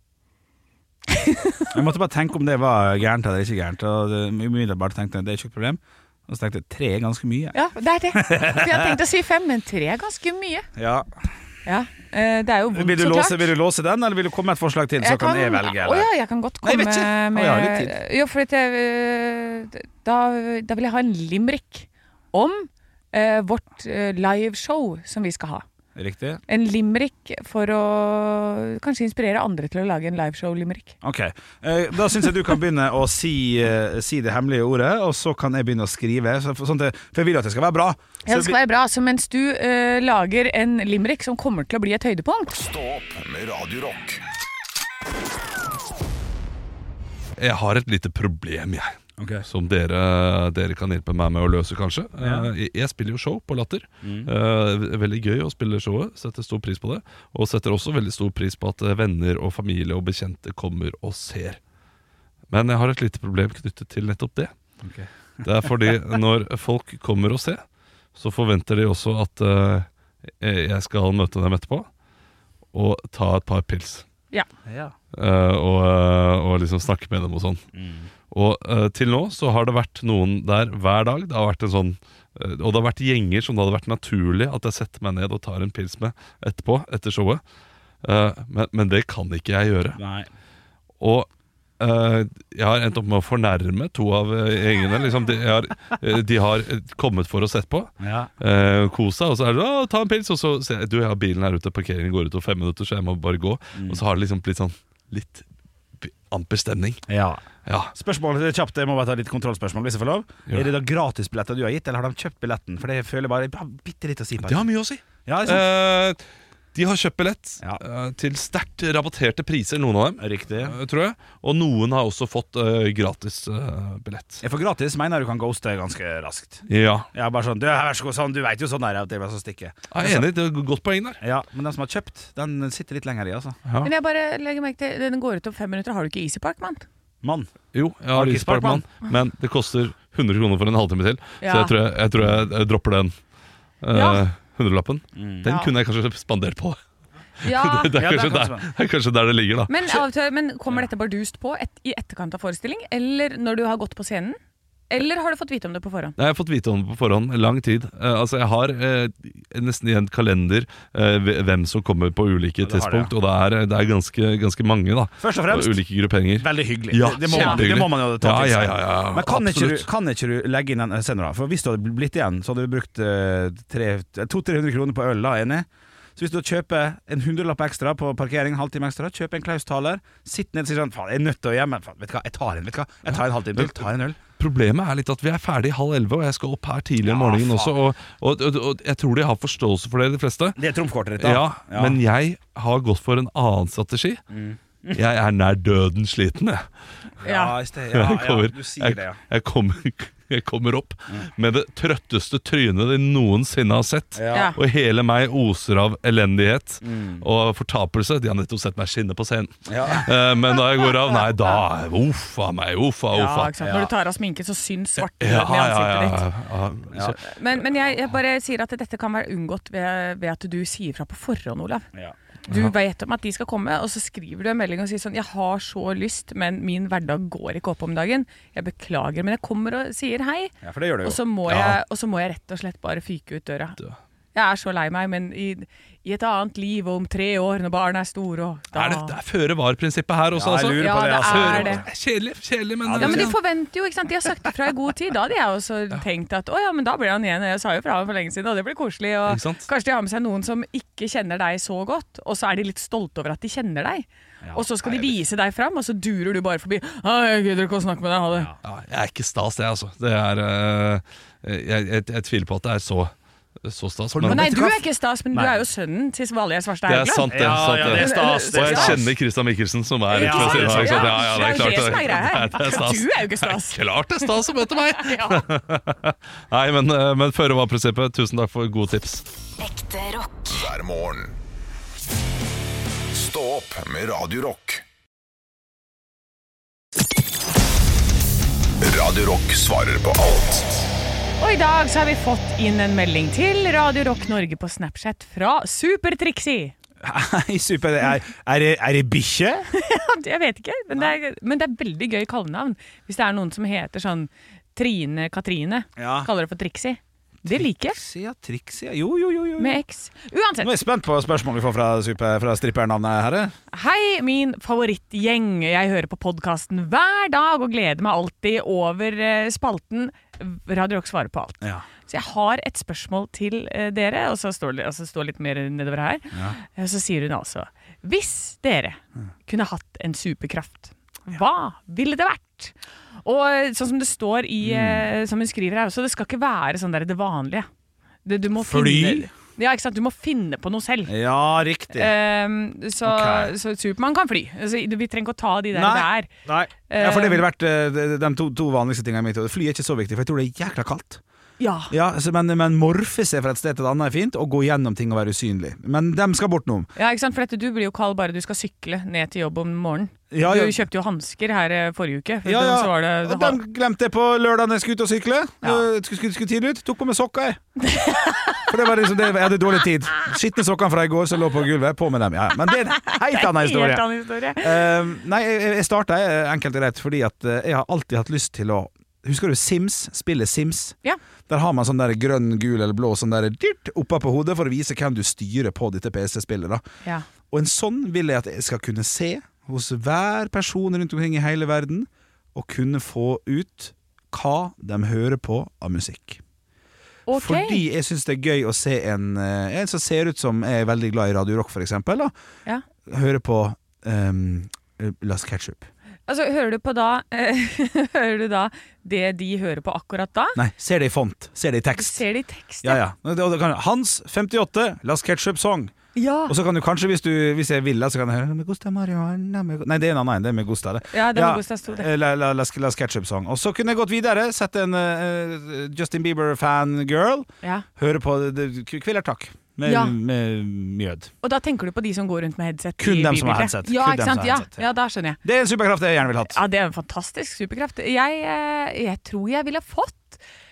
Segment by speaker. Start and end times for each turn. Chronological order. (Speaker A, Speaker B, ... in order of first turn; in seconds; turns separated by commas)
Speaker A: 1.1-1.8, Speaker B: 1.7-7.6, Speaker A: 7.5-10.7, Speaker B: 8.1-9.0, Speaker B: 10.8-11.3, Speaker A: 11.7-13.5, Speaker B: 12.7-16.1, Speaker A: 15.0-25.6, Speaker B: 16.6-18.0, Speaker B: 25.9-26.4, Speaker A: 26.5-30.9, Speaker B: 31.0-38.6, Speaker A: 38.2-42.5, Speaker C: 42.5-44.2, Speaker D: 47.4-61.6, Speaker B: 49.2-49.5, Speaker B: 52.2-52.5, Speaker B: 54.0-54.3, Speaker D: 62.5-64.5, Speaker B: 64.8-65.5, Speaker D: 65.4-67.6, Speaker D: 68.2-71.9, Speaker D: 72.7-74.0, Speaker B: 74.7-75.0, Speaker D: 75.1-77.6, Speaker B: 77.7-78.1, Speaker D: 78.3-87.4, Speaker D: 88.0-90.0, Speaker B: 90.0-90.3, Speaker D: 91.0-91.3, Speaker D: 91.8-105.5, Speaker B: 98.0-98.3, Speaker B: 103.8-104.0, Speaker D: 106.0-107.0, Speaker B: 107.1-107.4, Speaker D: 107.7-107.9, Speaker B: 107.9-114.7, Speaker D: 114.4-116.2, Speaker B: 115.2-115.6, Speaker D: 116.7-124.4, Speaker B: 120.2-120.8, Speaker B: 124.4-130.3, Speaker D: 126.7-127.1, Speaker D: 129.9-131.2, Speaker B: 131.2-133.6, Speaker D: 133.7-133.9, Speaker A: 133.8-136.9, Speaker B: 137.2-137.5, Speaker D: 137.7-143.1, Speaker B: 138.1-138.8, Speaker A: 141.4-141.7, Speaker B: 142.2-142.5, Speaker D: 143.8-146.8, Speaker A: 143.9-144.2, Speaker B: 145.2-145.5, Speaker A: 145.4-145.7, Speaker D: 147.4-150.0, Speaker A: 147.4-148.0, Speaker B: 147.9-148.7, Speaker A: 149.7-154.4, Speaker A: 154.9-156.2, Speaker D: 156.2-169.9, Speaker B: 162.6-163.1, Speaker B: 165.2-165.8, Speaker B: 166.4-184.2, Speaker A: 167.3-167.6, Speaker D: 184.4-190.6, Speaker B: 187.0-187.8, Speaker B: 190.6-192.0, Speaker D: 191.2-194.2, Speaker B: 194.3-195.0, Speaker D: 194.9-196.7, Speaker B: 197.2-199.2, Speaker A: 197.2-197.5, Speaker D: 197.9-213.7, Speaker B: 204.1-204.6, Speaker A: 204.3-204.6, Speaker B: 206.8-207.3, Speaker B: 209.7-210.1, Speaker A: 213.1-216.2, Speaker B: 213.6-213.9, Speaker D: 215.0-217.4, Speaker B: 216.9-217.2, Speaker A: 217.2-221.9, Speaker D: 222.5-222.7, Speaker A: 222.5-233.8, Speaker B: 230.6-231.7, Speaker D: 231.5-231.8, Speaker A: 234.3-239.2, Speaker D: 238.7-243.4, Speaker B: 240.3-241.8, Speaker A: 240.6-241.8, Speaker B: 242.8-243.4, Speaker A: 243.0-258.5, Speaker D: 249.3-249.7, Speaker B: 254.4-255.1, Speaker D: 258.6-263.1, Speaker D: 263.6-264.5, Speaker B: 264.1-265.6, Speaker A: 264.2-269.0, Speaker D: 266.9-279.2, Speaker B: 267.3-269.1, Speaker A: 270.1-275.5, Speaker B: 270.1-271.3, Speaker C: 279.6-281.4, Speaker C: 283.1-284.8, Speaker C: 288.8-290.9, Speaker A: 291.4-296.8, Speaker B: 297.0-299.7, Speaker A: 299.7-308.0, Speaker B: 306.0-306.3, Speaker B: 307.5-309.8, Speaker A: 309.6-310.7, Speaker B: 310.6-313.5, Speaker A: 313.7-337.7, Speaker B: 321.6-321.9, Speaker B: 334.6-335.1, Speaker A: 338.2-341.1, Speaker B: 338.6-339.3, Speaker B: 341.1-342.1, Speaker A: 341.9-346.3, Speaker B: 343.0-343.5, Speaker B: 345.7-351.2, Speaker A: 346.9-347.4, Speaker A: 351.6-351.9, Speaker B: 351.9-356.9, Speaker A: 357.0-363.6, Speaker B: 360.3-360.8, Speaker B: 362.4-367.6, Speaker A: 367.8-368.8, Speaker B: 368.7-381.0, Speaker A: 373.2-374.9, Speaker B: 381.5-386.9, Speaker B: 387.5-396.4, Speaker A: 397.3-397.8, Speaker B: 397.3-402.3, Speaker B: 403.1-405.9, Speaker A: 406.3-410.6, Speaker B: 410.6-412.2, Speaker A: 412.0-413.0, Speaker B: 412.8-415.9, Speaker A: 416.1-416.6, Speaker B: 416.5-431.3, Speaker A: 421.1-422.1, Speaker A: 429.9-430.1, Speaker A: 431.4-435.4, Speaker B: 433.0-434.9, Speaker B: 435.4-436.6, Speaker A: 436.5-440.4